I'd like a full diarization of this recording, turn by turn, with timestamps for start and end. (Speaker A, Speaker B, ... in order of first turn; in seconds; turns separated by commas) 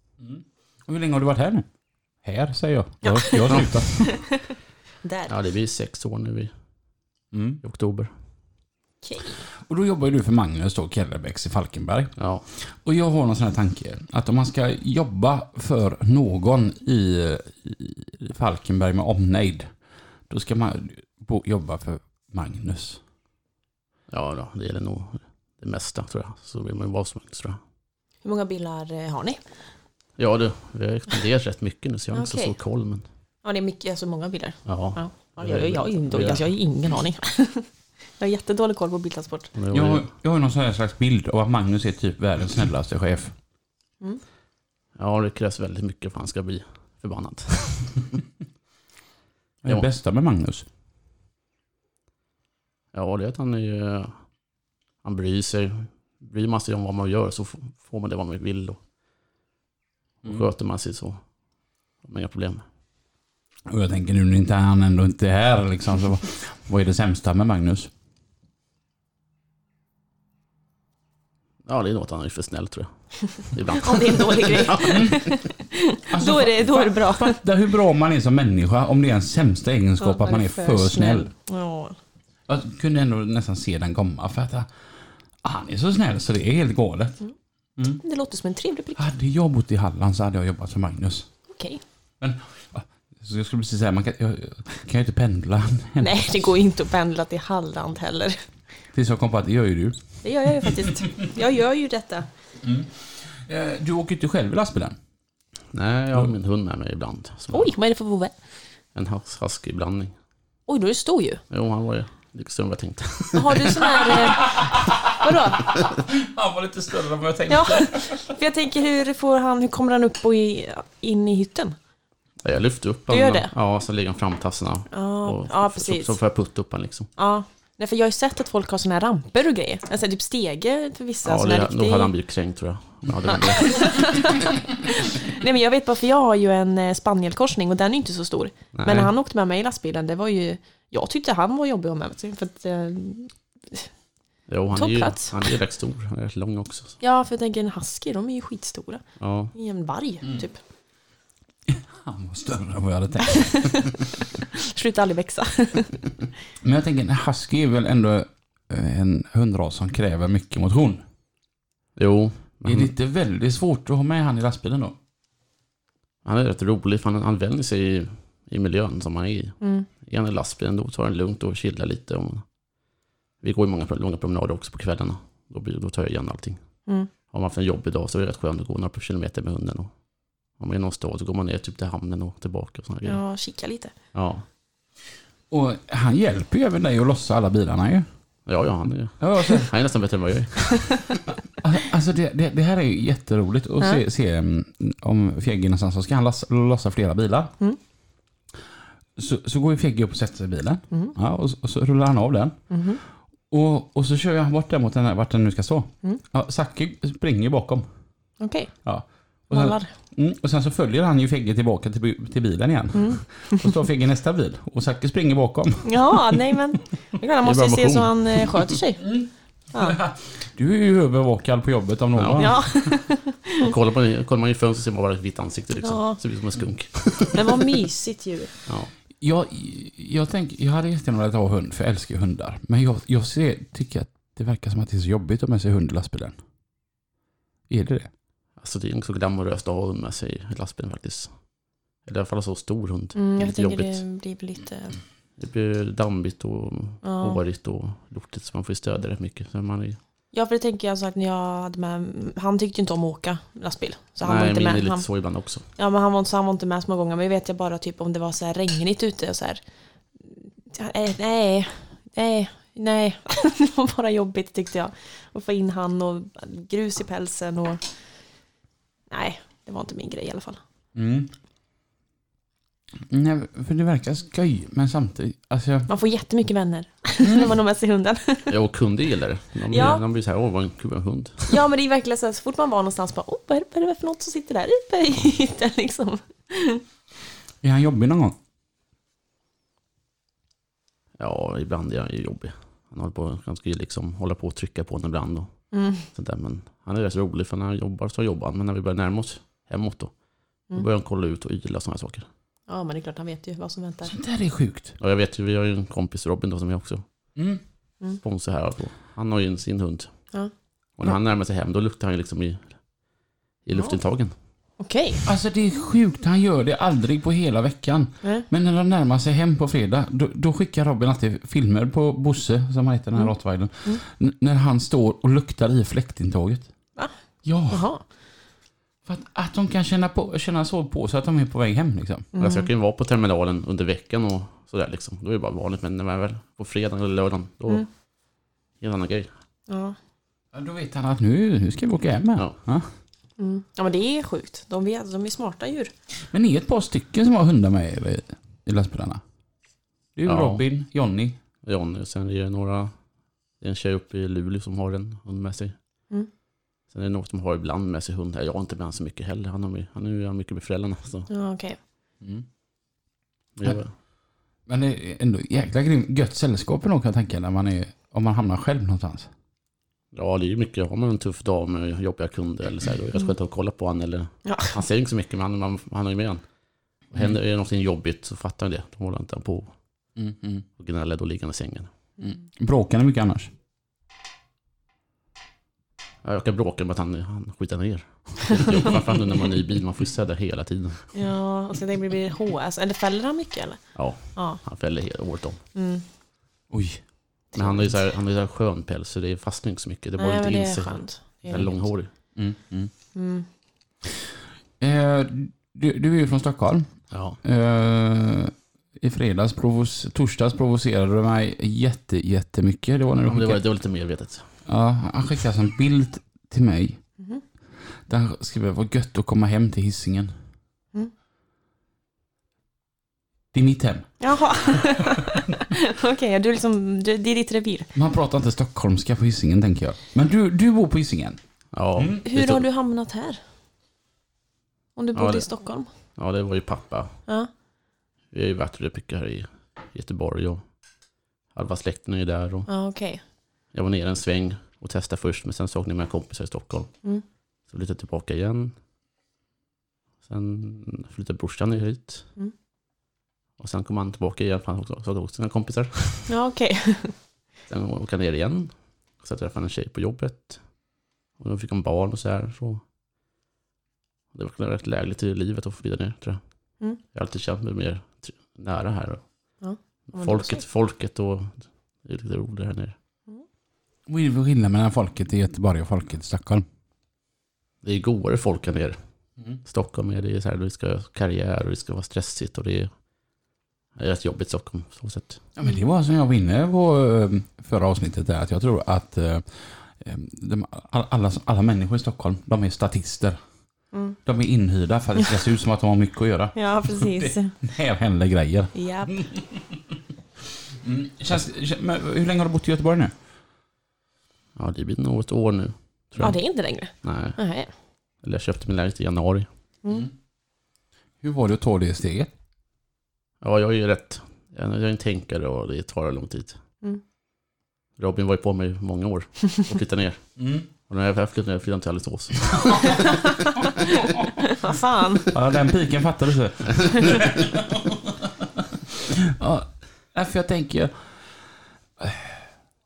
Speaker A: 0.2-1.7, Speaker A: 2.2-4.3, Speaker B: 3.0-5.3, Speaker C: 5.3-6.5, Speaker A: 7.3-7.6, Speaker C: 7.6-8.1, Speaker B: 9.0-9.4, Speaker A: 9.6-19.7, Speaker C: 12.2-12.4, Speaker A: 20.3-23.0, Speaker C: 24.1-27.6, Speaker B: 28.2-29.4, Speaker C: 30.2-33.0, Speaker B: 32.1-32.5, Speaker B: 33.4-39.5, Speaker C: 34.6-36.5, Speaker C: 39.5-40.1, Speaker A: 39.7-43.3, Speaker C: 45.0-48.2, Speaker A: 49.6-50.6, Speaker C: 52.9-54.1, Speaker C: 55.0-58.8, Speaker C: 60.2-61.2, Speaker C: 62.0-62.6, Speaker A: 63.6-67.9, Speaker C: 71.7-75.1, Speaker B: 73.8-77.4, Speaker A: 74.9-75.2, Speaker A: 76.1-81.3, Speaker B: 80.0-82.0, Speaker A: 82.5-84.7, Speaker A: 85.4-87.2, Speaker B: 87.9-89.0, Speaker A: 89.0-91.3, Speaker B: 91.5-91.8, Speaker A: 92.2-96.5, Speaker B: 96.0-98.4, Speaker A: 98.9-100.0, Speaker B: 100.2-102.3, Speaker A: 102.6-105.0, Speaker C: 105.7-107.7, Speaker B: 107.5-108.3, Speaker C: 108.9-110.1, Speaker B: 110.7-111.4, Speaker C: 111.5-114.0, Speaker B: 113.3-114.7, Speaker A: 114.0-118.2, Speaker B: 115.2-115.7, Speaker B: 117.5-121.8, Speaker C: 122.4-127.1, Speaker B: 123.1-123.5, Speaker B: 124.9-126.2, Speaker B: 127.2-132.1, Speaker C: 131.2-134.0, Speaker B: 133.3-143.9, Speaker C: 138.7-139.1, Speaker C: 144.5-147.0, Speaker B: 144.7-145.4, Speaker B: 147.0-149.0, Speaker C: 149.2-149.5, Speaker B: 149.5-150.6, Speaker A: 151.7-153.9, Speaker B: 153.2-156.0, Speaker A: 156.6-161.0, Speaker C: 161.9-162.9, Speaker A: 162.6-164.9, Speaker C: 166.2-172.4, Speaker B: 169.6-169.9, Speaker C: 173.4-176.6, Speaker C: 177.3-179.9, Speaker C: 180.6-183.2, Speaker B: 183.1-183.9, Speaker C: 184.1-184.4, Speaker A: 185.5-188.1, Speaker C: 188.5-191.1, Speaker A: 189.2-189.7, Speaker B: 190.7-191.0, Speaker A: 191.6-197.5, Speaker A: 199.2-202.6, Speaker B: 200.9-201.2, Speaker B: 202.7-203.0, Speaker A: 203.5-207.8, Speaker B: 208.4-208.7, Speaker A: 208.8-216.4, Speaker B: 209.5-209.9, Speaker B: 212.9-213.7, Speaker B: 215.8-219.2, Speaker C: 217.4-218.8, Speaker A: 219.0-222.7, Speaker B: 219.7-220.0, Speaker C: 222.1-222.6, Speaker B: 222.4-223.7, Speaker C: 223.6-227.6, Speaker B: 225.8-226.2, Speaker B: 227.3-228.5, Speaker A: 229.2-236.4, Speaker A: 237.7-238.1, Speaker C: 238.6-241.3, Speaker C: 242.1-244.0, Speaker B: 243.1-245.0, Speaker C: 245.4-250.0, Speaker B: 247.0-247.4, Speaker B: 250.3-255.0, Speaker C: 254.2-255.7, Speaker B: 255.8-259.6, Speaker B: 260.2-267.8, Speaker B: 269.1-270.6, Speaker A: 270.9-271.3, Speaker A: 273.1-275.9, Speaker B: 275.9-278.5, Speaker C: 278.5-281.5, Speaker B: 279.7-280.0, Speaker B: 281.5-286.8, Speaker A: 287.6-288.3, Speaker C: 291.2-295.5, Speaker B: 295.7-296.1, Speaker C: 296.1-300.1, Speaker C: 300.7-302.3, Speaker B: 302.7-304.1, Speaker A: 304.1-305.0, Speaker C: 305.0-307.0, Speaker A: 307.3-307.6, Speaker C: 308.2-310.1, Speaker C: 311.0-312.8, Speaker C: 313.6-314.3, Speaker B: 314.8-315.2, Speaker A: 315.2-326.7, Speaker A: 327.4-327.9, Speaker B: 327.7-328.0, Speaker A: 329.1-332.3, Speaker B: 332.3-332.7, Speaker C: 332.4-337.9, Speaker C: 338.8-339.3, Speaker B: 339.7-339.9, Speaker A: 340.5-342.9, Speaker B: 343.4-345.9, Speaker A: 346.3-349.2, Speaker A: 350.1-351.4, Speaker C: 350.2-350.6, Speaker C: 351.6-352.9, Speaker C: 353.6-355.7, Speaker C: 356.9-361.3, Speaker B: 361.3-361.8, Speaker C: 363.6-363.9, Speaker A: 364.7-369.3, Speaker C: 370.1-376.4, Speaker B: 374.4-374.8, Speaker C: 377.1-379.7, Speaker A: 380.1-380.6, Speaker C: 380.8-381.9, Speaker A: 382.2-383.5, Speaker C: 386.2-391.1, Speaker B: 391.1-393.8, Speaker C: 393.9-395.6, Speaker B: 394.3-394.6, Speaker B: 395.7-396.0, Speaker A: 396.7-397.0, Speaker C: 397.5-402.1, Speaker B: 400.2-401.7, Speaker A: 402.3-402.9, Speaker B: 403.1-403.5, Speaker A: 404.8-406.9, Speaker C: 407.1-407.4, Speaker A: 407.4-413.6, Speaker C: 413.2-414.4, Speaker A: 414.6-417.0, Speaker A: 418.1-420.3, Speaker A: 423.5-424.1, Speaker B: 424.2-427.9, Speaker A: 427.9-431.4, Speaker C: 431.7-432.6, Speaker A: 431.9-432.2, Speaker B: 432.2-433.4, Speaker B: 434.9-435.9, Speaker C: 435.1-435.4, Speaker C: 436.1-437.2, Speaker C: 438.3-440.6, Speaker C: 441.5-442.7, Speaker B: 442.7-443.2, Speaker C: 443.7-446.9, Speaker C: 447.7-448.7, Speaker C: 450.2-452.3, Speaker C: 453.6-456.3, Speaker B: 456.3-457.1, Speaker C: 457.7-460.6, Speaker C: 461.4-462.8, Speaker C: 464.3-466.4, Speaker C: 467.1-469.2, Speaker B: 469.6-470.6, Speaker C: 470.1-472.9, Speaker A: 474.1-476.6, Speaker C: 477.8-479.0, Speaker C: 479.6-482.9, Speaker C: 484.0-485.4, Speaker A: 485.6-493.4, Speaker B: 493.9-494.2, Speaker A: 494.2-499.9, Speaker B: 496.5-497.6, Speaker B: 498.7-499.1, Speaker A: 500.7-503.1, Speaker C: 504.6-506.4, Speaker B: 506.2-507.7, Speaker C: 507.0-507.4, Speaker C: 508.2-509.5, Speaker B: 509.8-510.1, Speaker A: 511.2-512.3, Speaker C: 513.4-516.6, Speaker C: 518.0-520.2, Speaker A: 520.4-520.7, Speaker C: 520.9-523.1, Speaker A: 522.5-523.0, Speaker B: 522.9-525.3, Speaker A: 523.8-524.4, Speaker A: 525.3-531.1, Speaker A: 532.0-532.5